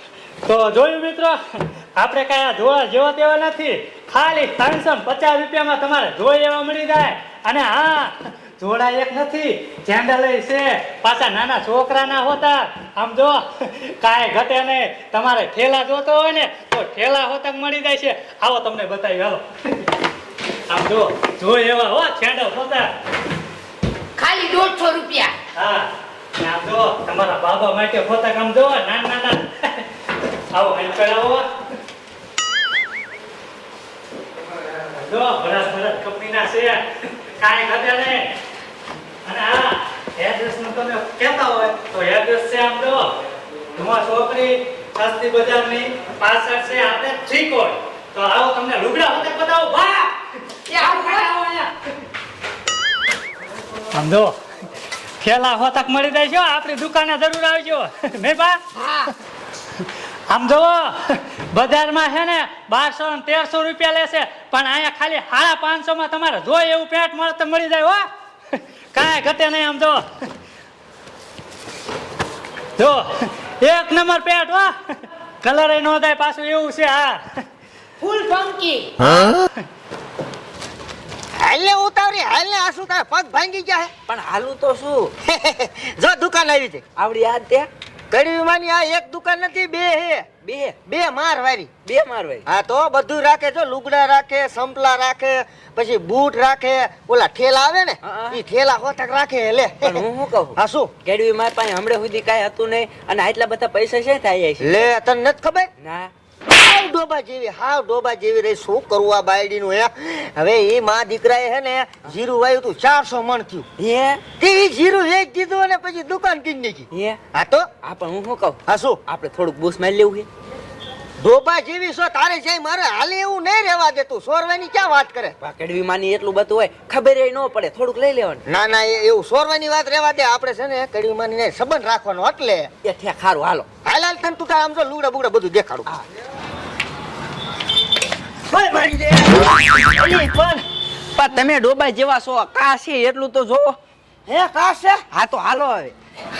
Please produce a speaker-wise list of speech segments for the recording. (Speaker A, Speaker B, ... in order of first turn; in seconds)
Speaker A: 0.4-19.9, 20.7-22.9, 25.6-29.9, 30.5-31.5, 34.8-38.3, 39.2-43.2, 43.8-50.1, 53.9-54.4, 55.2-58.6, 60.3-70.3, 72.8-77.4
Speaker B: 24.2-25.3, 50.7-51.3, 58.8-59.1, 78.0-79.0
Speaker C: 50.8-51.6, 84.1-85.1, 87.0-87.7, 90.4-90.8, 91.9-92.4, 98.0-98.4, 99.8-104.9, 105.8-106.1, 113.8-114.2, 116.9-117.2, 117.8-120.3, 125.4-128.4, 132.8-133.7, 141.2-143.8, 145.1-145.9
Speaker D: 79.0-79.5, 81.4-83.9, 85.2-86.8, 88.1-90.3, 90.8-91.7, 92.5-100.0, 100.6-100.9, 104.6-105.7, 106.5-113.7, 114.4-117.7, 118.7-119.0, 121.2-125.4, 128.4-132.7, 133.8-135.9, 138.5-140.6, 144.3-145.1